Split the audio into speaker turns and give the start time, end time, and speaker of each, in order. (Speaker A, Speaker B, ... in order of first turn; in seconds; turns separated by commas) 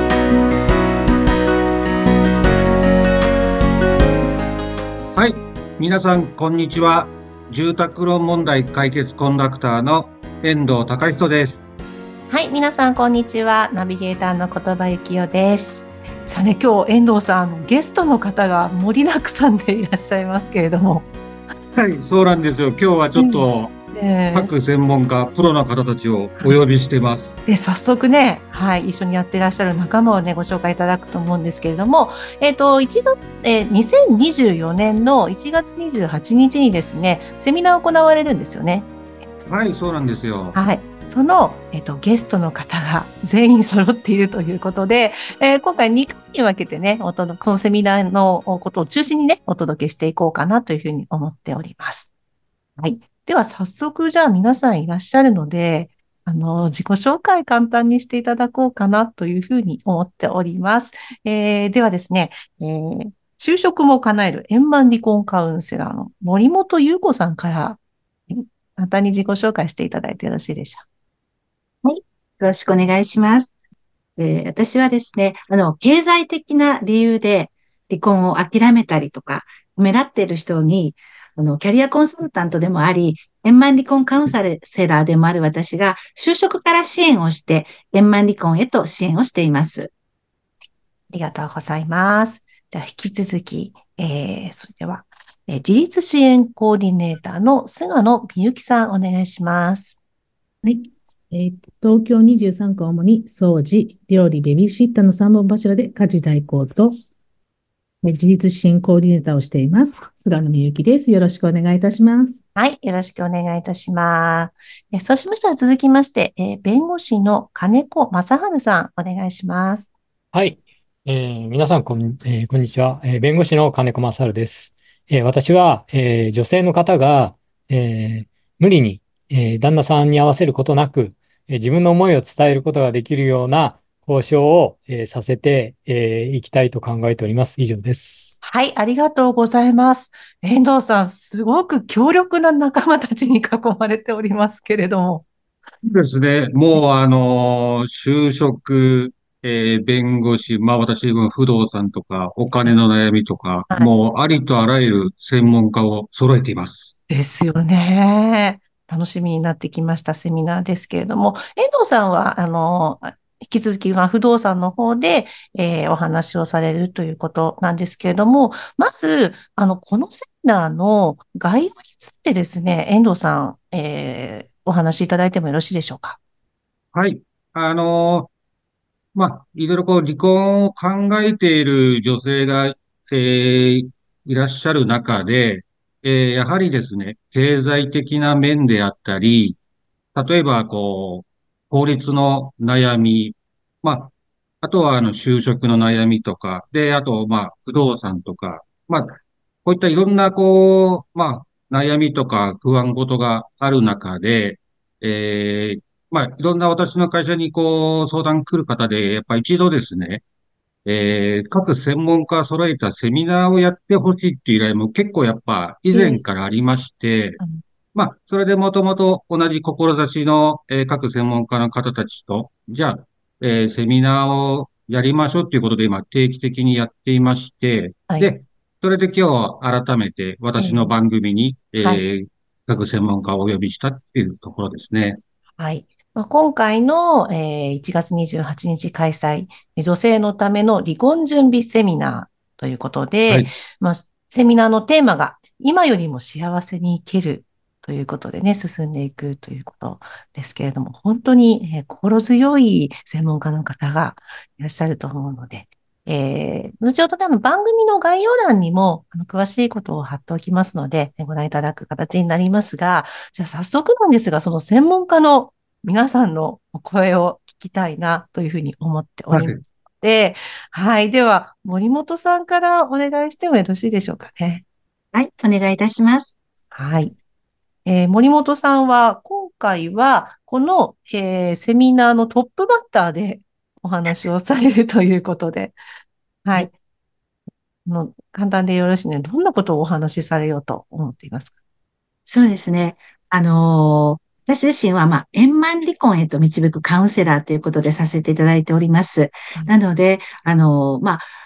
Speaker A: 5.2-11.6, Speaker B: 12.3-21.1, Speaker A: 21.8-23.7, Speaker B: 23.2-24.5, Speaker A: 24.3-27.3, Speaker B: 27.5-38.9, Speaker A: 39.5-40.6, Speaker B: 40.5-52.1, Speaker B: 52.8-70.8, Speaker C: 71.8-73.5, Speaker C: 74.2-89.9, Speaker B: 91.1-100.0, Speaker D: 101.3-106.9, Speaker D: 108.0-112.3, Speaker B: 112.6-119.9, Speaker E: 120.3-138.4, Speaker B: 138.4-145.3, Speaker A: 145.8-157.0, Speaker B: 157.1-176.2, Speaker A: 176.9-178.3, Speaker A: 179.2-189.6, Speaker A: 190.2-210.2, Speaker A: 210.9-217.4, Speaker B: 215.9-216.2, Speaker A: 217.9-235.2, Speaker B: 230.6-230.9, Speaker B: 235.6-274.6, Speaker A: 269.3-269.6, Speaker C: 275.1-276.4, Speaker B: 276.7-277.1, Speaker B: 277.9-285.8, Speaker B: 286.4-286.7, Speaker B: 287.9-291.5, Speaker C: 292.3-301.2